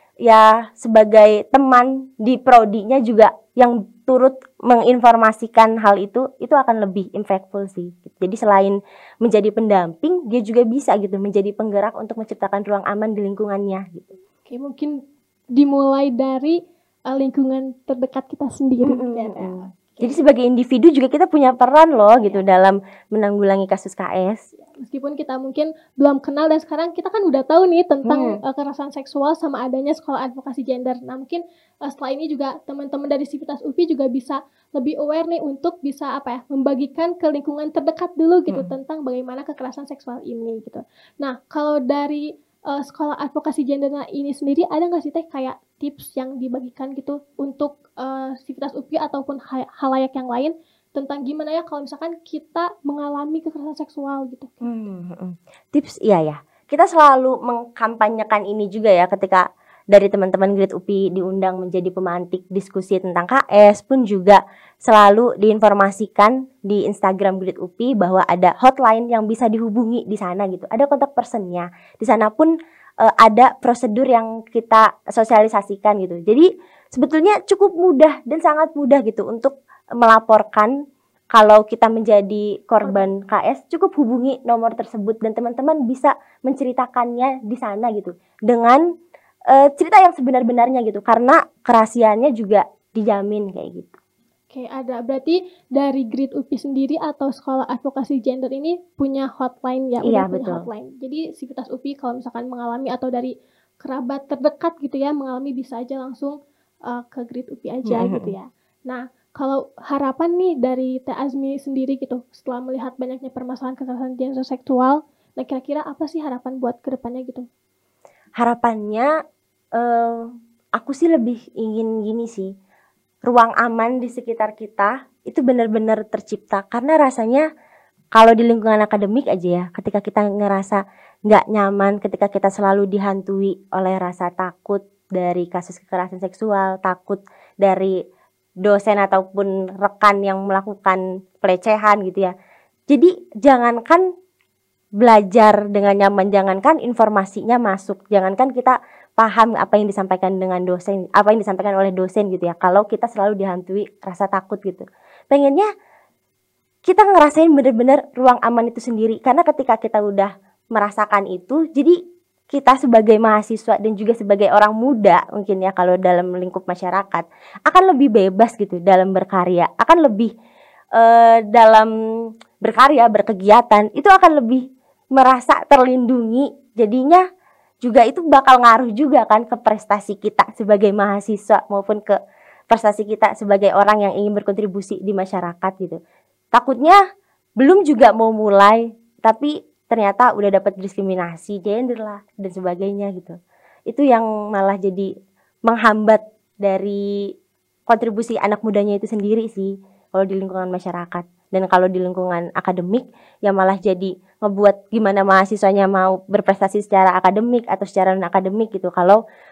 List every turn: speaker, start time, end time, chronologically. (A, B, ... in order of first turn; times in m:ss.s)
0:00.2-0:14.1 A
0:14.5-0:14.9 B
0:15.6-0:16.6 B
0:17.1-0:20.2 B
0:18.8-0:24.4 A
0:24.6-0:54.6 B
0:28.0-0:28.4 A
0:54.6-1:20.7 A
1:21.3-1:28.8 A
1:29.5-1:34.0 A
1:34.5-1:46.4 B
1:40.0-1:40.6 A
1:46.9-1:57.5 B
1:47.9-1:48.3 A
1:58.4-1:59.1 A
1:59.8-2:02.5 A
2:03.2-2:07.5 A
2:08.2-2:18.0 A
2:18.6-2:22.3 A
2:22.9-2:24.0 A
2:25.0-2:35.7 A
2:36.9-2:42.0 A
2:42.5-2:50.3 A
2:51.0-2:51.9 A
2:52.6-2:54.6 A
2:55.2-2:57.2 A
2:57.8-3:02.2 A
3:02.7-3:06.0 A
3:06.5-3:07.0 A
3:07.6-3:13.4 A
3:13.9-3:15.1 A
3:15.7-3:17.0 A
3:17.9-3:29.2 A